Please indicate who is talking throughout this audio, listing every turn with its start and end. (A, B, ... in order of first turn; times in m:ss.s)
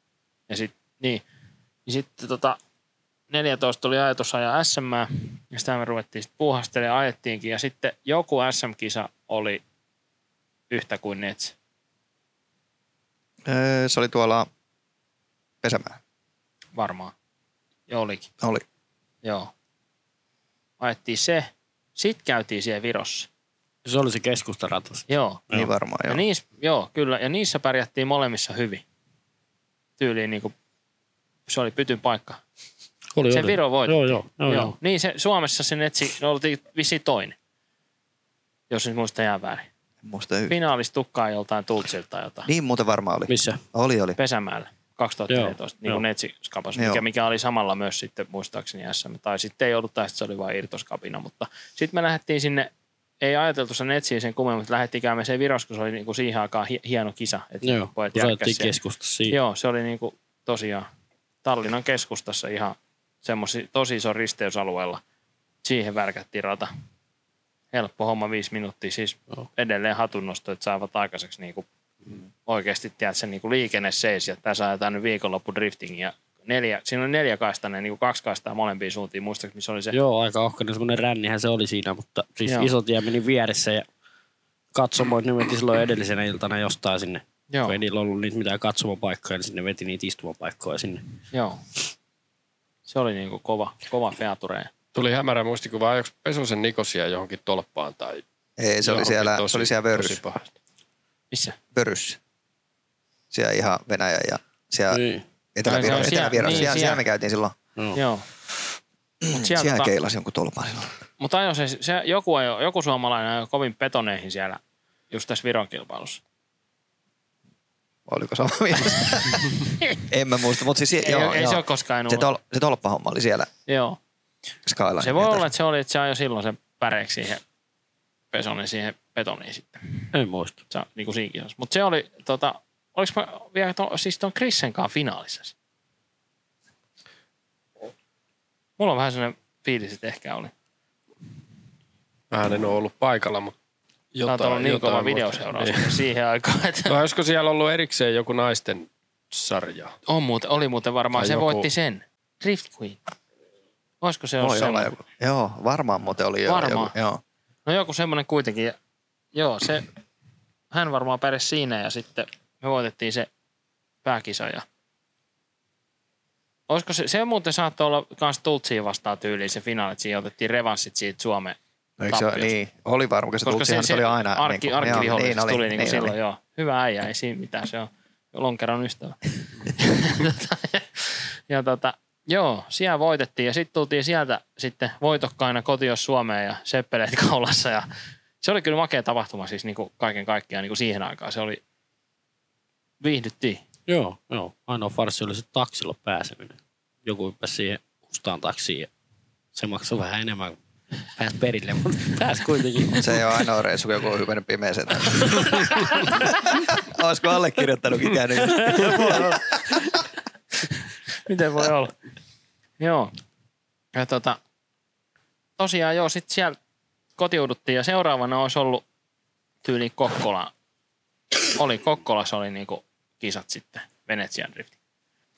0:00.5-0:01.2 A
0:01.8-0:02.6 A
0:03.3-0:09.6 A
0:10.7-0:11.5 A
0:13.4-0:14.5 B
0:15.6-0:16.0 B
0:16.7-0:17.1 A
0:17.9-0:18.3 A
0:19.2-0:19.5 A
0:20.8-0:23.3 A
0:23.8-0:25.7 C
0:25.1-0:25.4 A
0:25.5-0:26.2 B
0:26.1-0:28.8 A
0:30.0-0:30.5 A
0:31.5-0:32.4 A
0:33.1-0:34.7 C
0:33.3-0:37.3 A
0:38.7-0:39.7 A
0:40.0-0:40.5 B
0:40.5-0:42.5 A
0:42.5-0:44.2 B
0:43.3-0:43.6 C
0:44.2-0:52.7 A
0:45.3-0:46.0 C
0:46.7-0:47.0 B
0:53.2-0:58.7 A
0:57.6-0:59.4 C
0:59.3-1:00.9 A
1:01.4-1:05.0 A
1:05.6-1:06.7 A
1:07.7-1:11.6 A
1:12.4-1:20.0 A
1:19.9-1:23.8 C
1:22.4-1:22.7 A
1:24.7-1:31.2 C
1:27.5-1:27.8 A
1:31.3-1:31.6 A
1:32.9-1:34.7 A
1:34.9-1:38.2 D
1:38.6-1:40.2 B
1:38.8-1:40.5 D
1:41.3-1:41.6 A
1:41.7-1:42.2 B
1:43.3-1:45.0 B
1:44.9-1:45.2 C
1:45.5-1:47.6 B
1:45.6-1:47.0 A
1:47.9-1:48.2 A
1:49.2-1:51.0 B
1:49.3-1:49.9 A
1:51.2-1:54.6 A
1:55.1-1:56.2 A
1:58.1-2:03.5 B
2:01.0-2:02.3 A
2:03.7-2:04.0 A
2:04.6-2:05.4 B
2:05.0-2:07.4 A
2:08.3-2:10.0 A
2:10.1-2:10.6 C
2:10.7-2:15.5 A
2:18.8-2:20.5 A
2:22.3-2:23.5 D
2:24.1-2:26.0 D
2:24.2-2:27.0 A
2:26.9-2:30.0 D
2:30.0-2:33.0 A
2:31.1-2:31.7 D
2:34.0-2:34.9 A
2:34.4-2:37.2 B
2:36.4-2:36.9 A
2:37.6-2:38.8 A
2:39.3-2:39.9 A
2:40.7-2:43.3 A
2:44.0-2:44.6 A
2:46.7-2:52.5 A
2:52.0-2:56.1 B
2:53.4-3:07.9 A
3:08.4-3:11.6 A
3:13.0-3:13.6 A
3:13.9-3:18.9 C
3:19.5-3:20.6 C
3:21.1-3:23.0 C
3:23.0-3:25.7 B
3:26.8-3:30.0 B
3:28.6-3:29.2 C
3:31.2-3:31.9 A
3:32.8-3:33.1 A
3:33.9-3:34.4 A
3:35.6-3:36.6 A
3:37.2-3:38.8 A
3:39.6-3:40.5 A
3:41.5-3:44.7 A